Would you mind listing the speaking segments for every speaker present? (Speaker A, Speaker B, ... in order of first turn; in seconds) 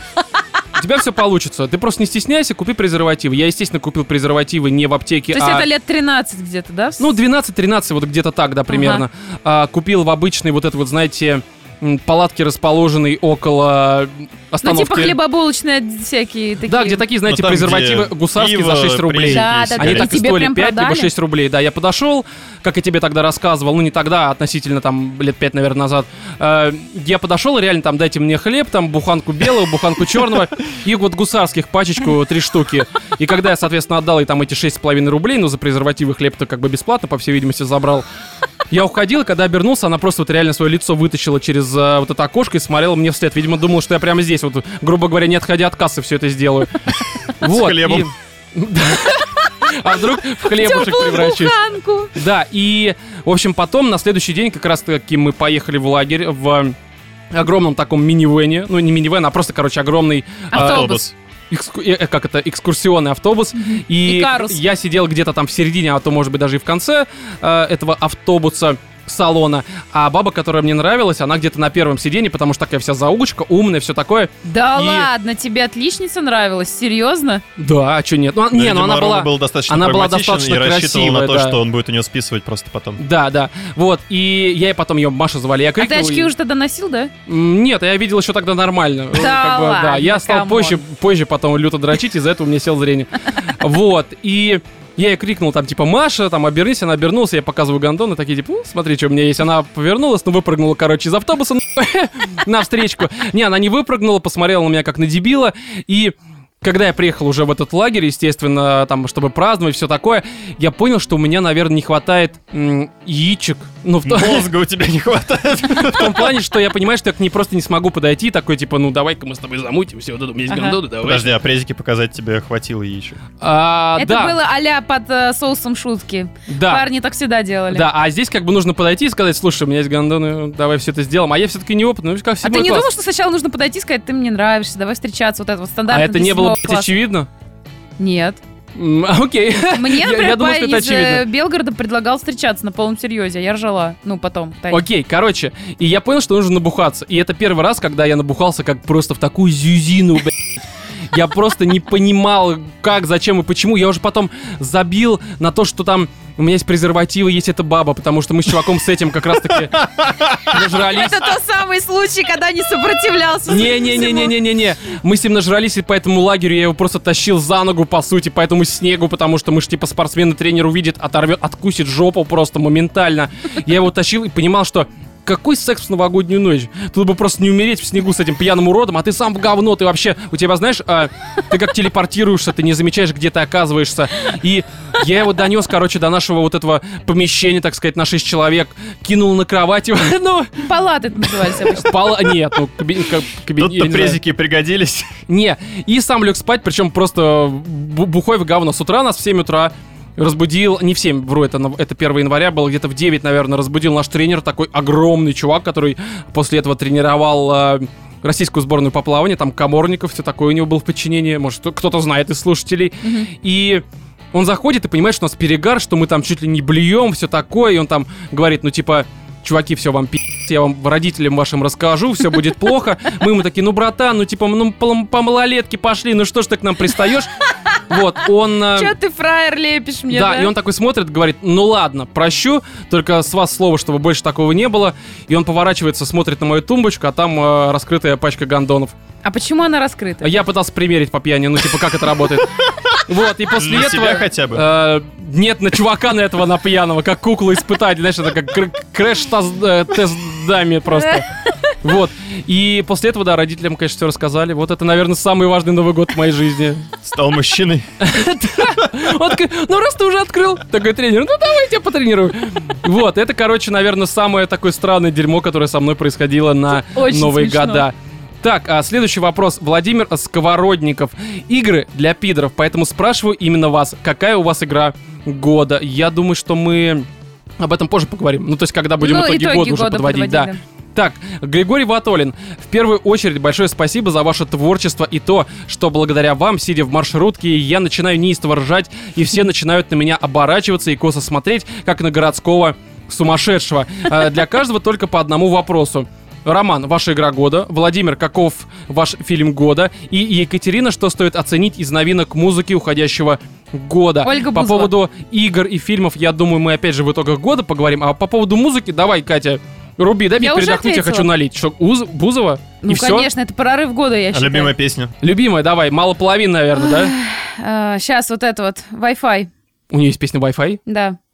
Speaker A: 0.8-5.7, 7.0-15.2, 16.7-38.0, 38.7-51.5, 52.1-56.8, 57.3-61.0, 61.5-75.1, 77.6-81.6, 83.0-86.3, 87.3-114.5, 115.8-121.3, 123.4-124.4, 126.5-126.9, 127.7-132.9, 135.9-137.3, 138.8-141.2, 144.7-150.5, 151.1-161.3, 163.5-190.7, 191.3-194.2, 195.3-227.3, 227.9-228.9, 230.1-238.9, 240.2-251.3, 251.8-256.9, 258.0-277.1, 277.6-313.3, 315.2-317.1, 319.9-320.8
Speaker B: 5.3-7.1, 8.7-9.1, 14.6-17.0, 19.2-21.1, 50.4-52.2, 60.5-61.0, 63.6-64.6, 74.5-77.4, 85.8-87.1, 89.1-90.8, 120.5-120.8, 124.0-127.9, 132.4-136.9, 138.0-138.4, 139.7-144.8, 160.5-164.3, 190.6-192.1, 213.0-213.3, 228.7-230.5, 239.2-240.4, 266.7-267.9, 279.0-280.6, 304.2-304.9, 310.4-311.3, 312.8-314.7, 316.8-319.5, 320.9-321.2
Speaker C: 17.2-20.1, 47.4-48.1, 60.5-61.1, 78.5-83.0, 114.0-116.4, 121.0-123.2, 159.8-160.6, 193.6-195.2, 243.5-244.7, 257.0-257.9, 314.3-315.1